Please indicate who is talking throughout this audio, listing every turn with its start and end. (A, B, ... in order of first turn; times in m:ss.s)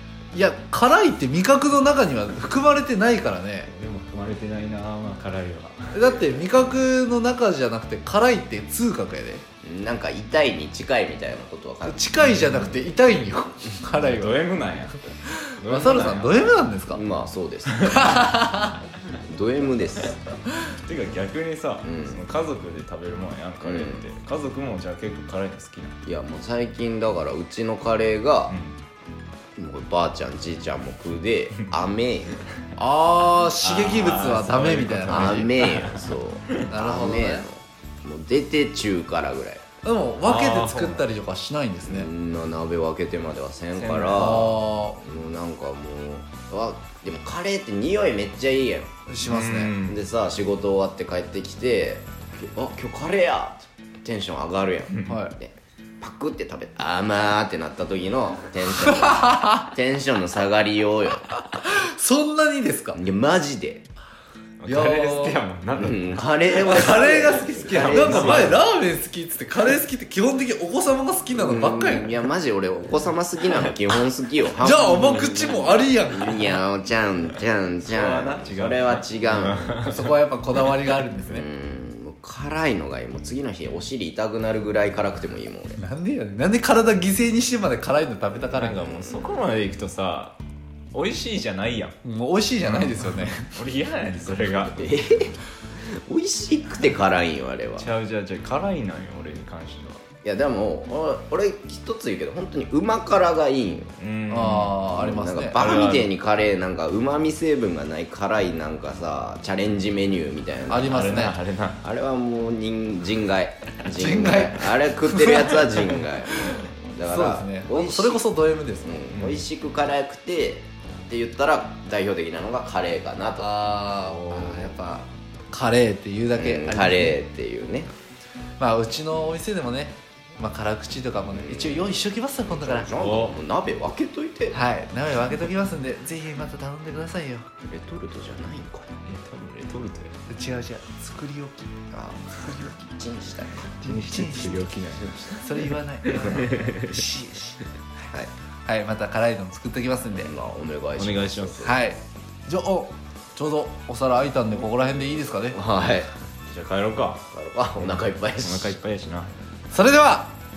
0:00.3-0:03.7 A
0:03.6-0:06.1 B
0:05.9-0:09.4 A
0:06.1-0:06.6 C
0:09.6-0:12.0 C
0:11.8-0:14.5 A
0:12.2-0:12.7 B
0:13.9-0:15.0 B
0:15.2-0:17.0 A
0:15.6-0:16.6 B
0:16.9-0:18.3 C
0:17.8-0:18.2 B
0:17.8-0:18.8 A
0:19.3-0:20.4 C
0:20.8-0:26.0 B
0:21.8-0:22.2 C
0:23.6-0:24.1 C
0:26.0-0:28.5 C
0:28.5-0:28.8 B
0:29.6-0:32.4 C
0:32.8-0:35.6 A
0:33.5-0:36.6 B
0:35.0-0:39.6 C
0:36.7-0:37.4 A
0:39.8-0:42.1 A
0:40.2-0:41.1 B
0:41.8-0:48.9 C
0:43.7-0:44.5 B
0:44.1-0:45.0 A
0:49.1-0:49.7 A
0:49.2-0:50.0 B
0:49.8-1:01.3 C
0:55.0-0:55.3 A
0:58.7-0:59.6 A
1:01.5-1:03.0 A
1:02.9-1:03.8 C
1:04.6-1:06.1 B
1:04.6-1:05.4 A
1:05.8-1:08.6 C
1:06.5-1:12.3 A
1:07.6-1:08.6 B
1:11.3-1:19.8 C
1:14.6-1:16.6 A
1:17.8-1:20.2 B
1:19.8-1:21.4 A
1:21.3-1:25.8 C
1:25.8-1:28.9 A
1:28.5-1:30.4 B
1:28.7-1:29.5 C
1:30.9-1:32.0 B
1:32.0-1:33.5 A
1:32.6-1:35.0 B
1:34.6-1:37.9 C
1:37.8-1:40.0 B
1:40.2-1:43.9 C
1:44.0-1:44.9 B
1:44.3-1:45.8 A
1:44.9-1:51.3 C
1:45.6-1:46.1 B
1:50.7-1:51.4 A
1:50.8-1:51.8 B
1:51.8-1:58.2 C
1:53.8-1:59.0 A
1:58.8-2:05.1 C
1:59.1-1:59.4 B
2:03.4-2:04.8 A
2:05.5-2:07.2 A
2:06.3-2:07.9 C
2:08.6-2:12.9 A
2:11.3-2:14.6 C
2:13.0-2:13.4 B
2:14.5-2:17.5 A
2:17.6-2:19.0 C
2:19.0-2:20.1 B
2:20.3-2:21.7 A
2:21.9-2:23.8 C
2:23.8-2:24.7 A
2:23.8-2:27.1 B
2:24.9-2:25.5 C
2:25.4-2:27.6 A
2:26.1-2:26.5 C
2:28.6-2:30.3 A
2:30.1-2:31.8 C
2:31.0-2:31.7 B
2:31.6-2:35.6 A
2:35.5-2:36.1 C
2:36.5-2:37.2 B
2:37.3-2:38.8 C
2:38.4-2:39.3 B
2:39.7-2:40.3 A